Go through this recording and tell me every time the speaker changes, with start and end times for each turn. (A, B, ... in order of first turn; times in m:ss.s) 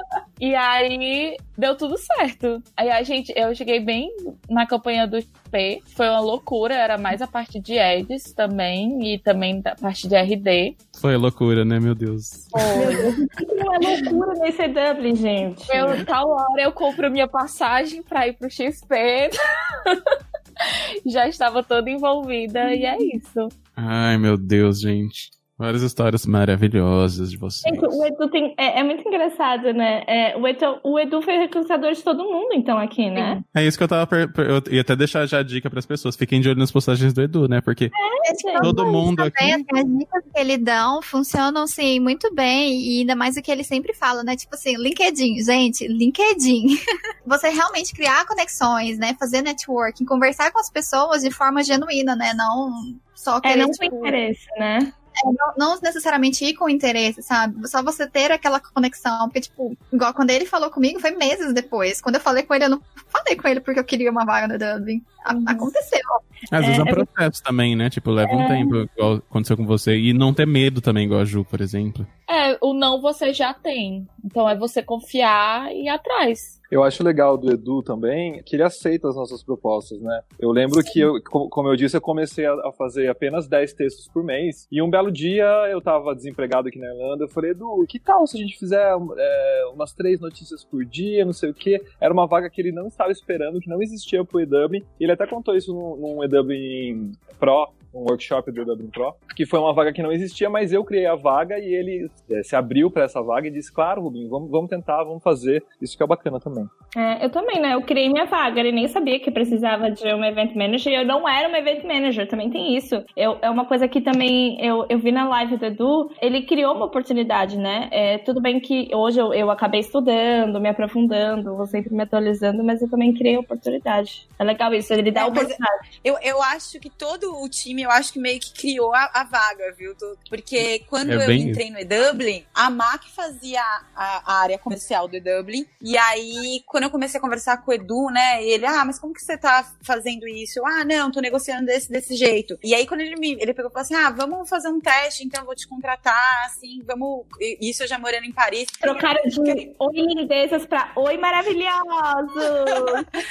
0:00.4-0:10.8 A
0:10.9-0:12.7 B
0:12.5-0:13.2 A
0:12.7-0:16.0 C
0:15.7-0:23.5 A
0:23.8-0:28.0 B
0:27.6-0:33.4 C
0:33.1-0:33.4 A
0:33.5-0:37.9 B
0:38.0-0:38.7 C
0:38.2-0:54.2 D
0:38.6-0:39.7 B
0:53.4-0:54.9 C
0:55.2-1:06.3 D
1:05.3-1:05.7 C
1:06.5-1:12.1 B
1:06.6-1:07.0 C
1:08.2-1:08.7 C
1:12.3-1:16.6 A
1:16.7-1:46.7 E
1:46.9-2:05.7 C
2:05.1-2:29.6 F
2:11.0-2:11.6 B
2:28.8-2:33.1 C